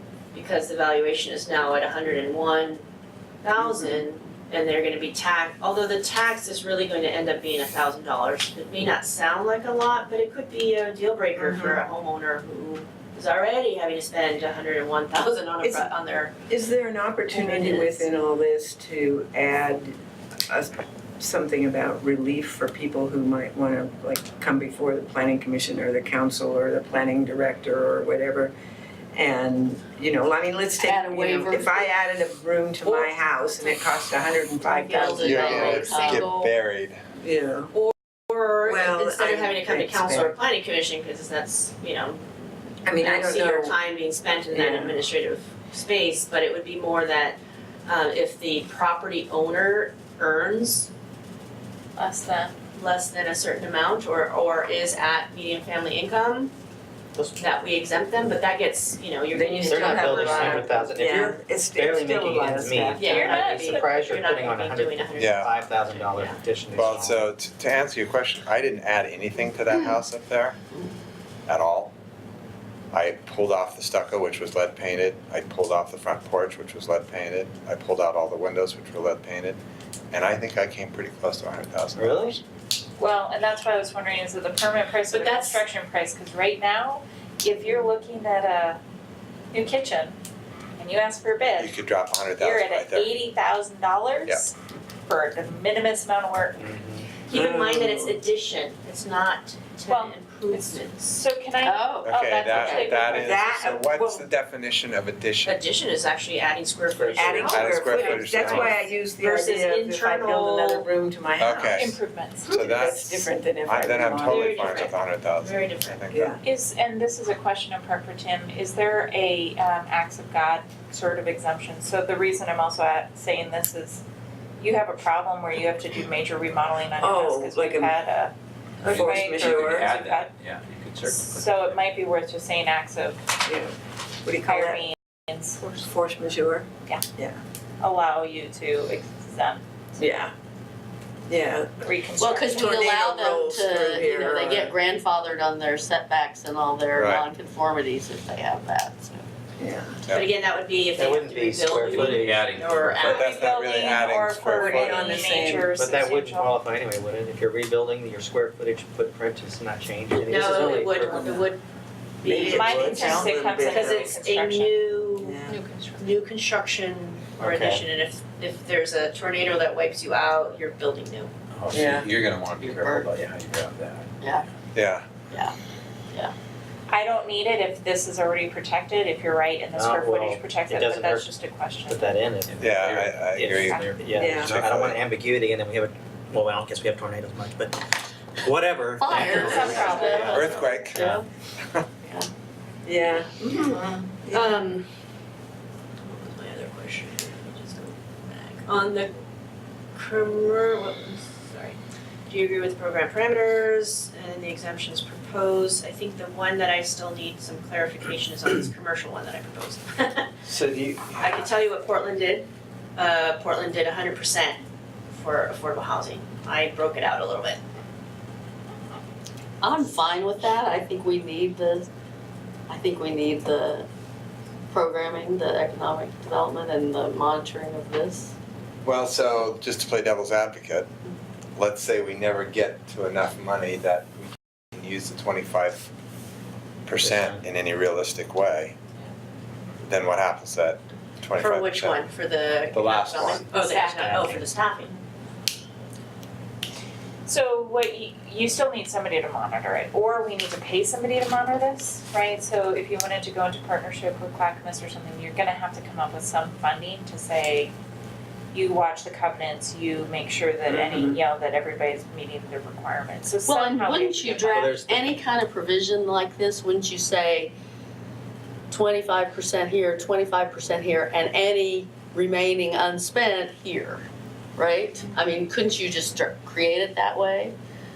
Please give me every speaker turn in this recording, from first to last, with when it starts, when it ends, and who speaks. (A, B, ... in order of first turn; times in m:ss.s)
0:00.3-0:02.8 A
0:03.4-0:16.3 A
0:11.4-0:11.8 B
0:15.6-0:15.9 B
0:16.5-0:20.0 B
0:17.3-0:18.1 A
0:20.5-0:28.5 B
0:29.1-0:35.9 B
0:30.8-0:31.9 C
0:34.6-0:36.5 C
0:35.1-0:37.0 D
0:35.6-0:36.3 A
0:37.2-0:37.7 B
0:37.7-0:42.3 A
0:38.6-0:40.4 B
0:42.8-0:43.8 B
0:43.0-0:50.9 A
0:44.5-0:45.0 B
0:52.0-0:52.5 E
0:52.7-0:56.5 A
0:57.2-0:57.4 F
0:57.4-1:01.0 A
0:59.3-1:03.5 B
0:59.6-1:07.3 F
1:03.0-1:06.4 A
1:03.0-1:03.9 E
1:05.2-1:05.5 D
1:06.7-1:10.6 D
1:09.7-1:10.0 C
1:11.5-1:11.9 D
1:12.9-1:19.6 D
1:20.1-1:22.4 D
1:22.0-1:22.4 F
1:23.0-1:28.8 E
1:25.1-1:25.6 A
1:29.5-1:30.2 E
1:30.8-1:31.8 E
1:31.6-1:33.1 D
1:32.4-1:36.7 E
1:36.6-1:37.2 F
1:37.3-1:41.2 A
1:37.3-1:38.2 B
1:39.9-1:43.5 E
1:41.6-1:43.0 C
1:42.0-1:45.6 D
1:43.1-1:44.3 B
1:45.4-1:50.9 A
1:46.9-1:47.4 F
1:47.1-1:54.8 B
1:47.4-1:48.7 D
1:51.4-1:52.0 D
1:51.6-1:52.8 E
1:52.5-1:56.4 D
1:54.2-1:56.0 A
1:56.1-1:56.4 B
1:56.4-2:04.0 E
2:04.6-2:10.3 E
2:07.0-2:08.0 B
2:08.8-2:09.9 B
2:08.8-2:11.4 G
2:11.0-2:13.3 E
2:13.4-2:14.8 B
2:14.4-2:15.7 E
2:15.6-2:17.4 B
2:17.8-2:19.6 E
2:20.0-2:20.3 B
2:21.3-2:21.8 B
2:21.8-2:22.9 E
2:22.2-2:29.2 C
2:22.6-2:24.7 B
2:27.0-2:27.2 D
2:29.6-2:30.0 B
2:30.1-2:33.4 A
2:31.0-2:32.9 F
2:32.2-2:33.1 G
2:32.9-2:36.6 E
2:33.0-2:35.2 D
2:34.5-2:35.8 B
2:35.7-2:41.5 F
2:40.2-2:41.6 A
2:42.2-2:45.4 A
2:42.2-2:44.0 B
2:42.4-2:44.9 E
2:45.2-2:45.6 B
2:45.5-2:46.0 E
2:46.0-2:51.3 A
2:47.4-2:47.8 F
2:51.6-2:52.8 D
2:51.7-2:52.1 B
2:51.7-2:53.2 G
2:52.6-2:53.1 C
2:53.4-2:53.8 D
2:54.2-2:54.4 C
2:54.8-2:55.1 D
2:55.3-2:55.5 C
2:56.9-3:02.1 E
2:59.8-3:01.3 F
3:01.9-3:11.2 F
3:02.6-3:03.8 D
3:03.4-3:04.3 E
3:04.1-3:04.6 B
3:04.4-3:05.0 D
3:09.0-3:11.2 C
3:09.1-3:10.5 E
3:10.2-3:11.0 D
3:12.8-3:14.6 B
3:13.7-3:14.9 A
3:16.0-3:19.1 A
3:19.9-3:21.8 A
3:22.3-3:30.4 A
3:30.4-3:31.3 D
3:31.2-3:37.6 A
3:39.6-3:41.9 C
3:42.7-3:43.9 C
3:44.7-3:48.3 C
3:48.8-3:50.9 D
3:51.6-3:55.9 D
3:56.8-3:58.8 D
3:57.0-3:57.4 F
3:59.8-4:02.0 D
4:01.4-4:04.9 A
4:02.7-4:03.5 D
4:03.5-4:04.2 C
4:04.0-4:04.4 F
4:07.2-4:17.7 E
4:18.5-4:24.8 E
4:20.7-4:21.2 B
4:23.4-4:27.5 C
4:24.5-4:25.1 F
4:28.7-4:34.0 C
4:34.6-4:37.6 C